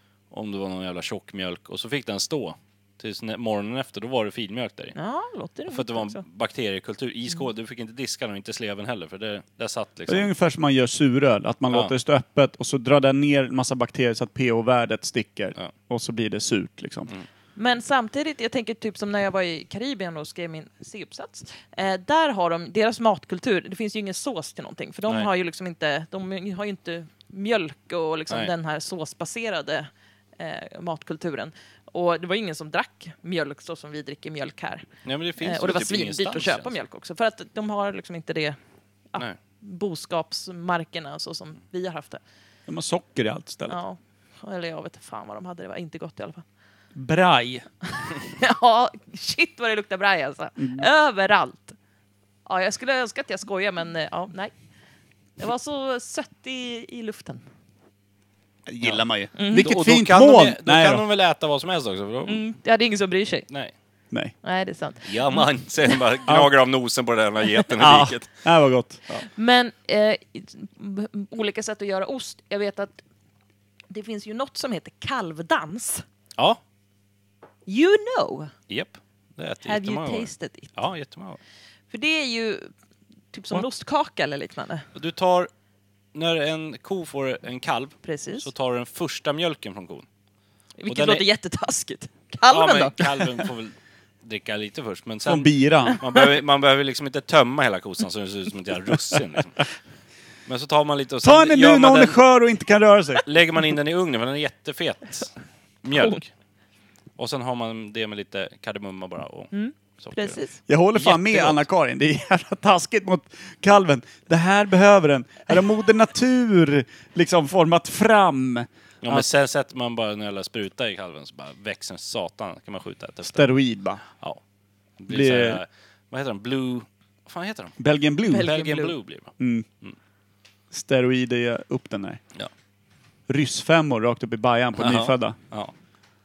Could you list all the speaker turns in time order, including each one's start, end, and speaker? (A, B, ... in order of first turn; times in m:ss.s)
0:00.3-0:05.0 A
0:05.0-0:06.2 B
0:05.7-0:10.3 A
0:10.1-0:17.1 C
0:17.6-0:34.9 B
0:35.0-0:36.7 A
0:35.4-0:38.6 B
0:39.1-0:42.2 B
0:42.7-0:43.8 C
0:43.7-0:46.4 B
0:46.9-0:47.7 C
0:48.0-0:51.8 B
0:50.6-0:50.9 C
0:52.4-0:54.5 B
0:55.4-0:57.4 B
0:58.7-1:01.0 C
0:58.8-1:02.4 A
0:59.4-0:59.7 B
1:02.3-1:03.5 B
1:04.4-1:05.5 B
1:05.0-1:08.3 A
1:06.2-1:06.5 C
1:07.8-1:09.0 C
1:09.3-1:13.0 B
1:13.9-1:16.0 B
1:17.7-1:18.5 B
1:18.7-1:21.4 A
1:19.6-1:20.7 B
1:21.9-1:22.7 B
1:23.3-1:24.8 B
1:24.9-1:25.5 A
1:26.1-1:30.0 A
1:28.0-1:28.5 B
1:30.8-1:33.4 B
1:30.9-1:31.2 A
1:32.5-1:39.6 A
1:35.2-1:36.0 C
1:40.4-1:42.2 A
1:41.2-1:43.2 C
1:43.2-1:46.3 A
1:47.2-1:50.4 A
1:49.5-1:50.6 B
1:50.7-1:59.2 C
1:50.9-1:51.6 A
1:59.0-2:03.4 A
2:03.2-2:04.0 C
2:05.0-2:07.7 A
2:05.1-2:05.6 C
2:07.8-2:08.5 C
2:08.3-2:08.9 B
2:08.4-2:09.3 A
2:09.4-2:09.7 C
2:10.7-2:12.2 C
2:13.3-2:15.4 C
2:14.8-2:15.7 A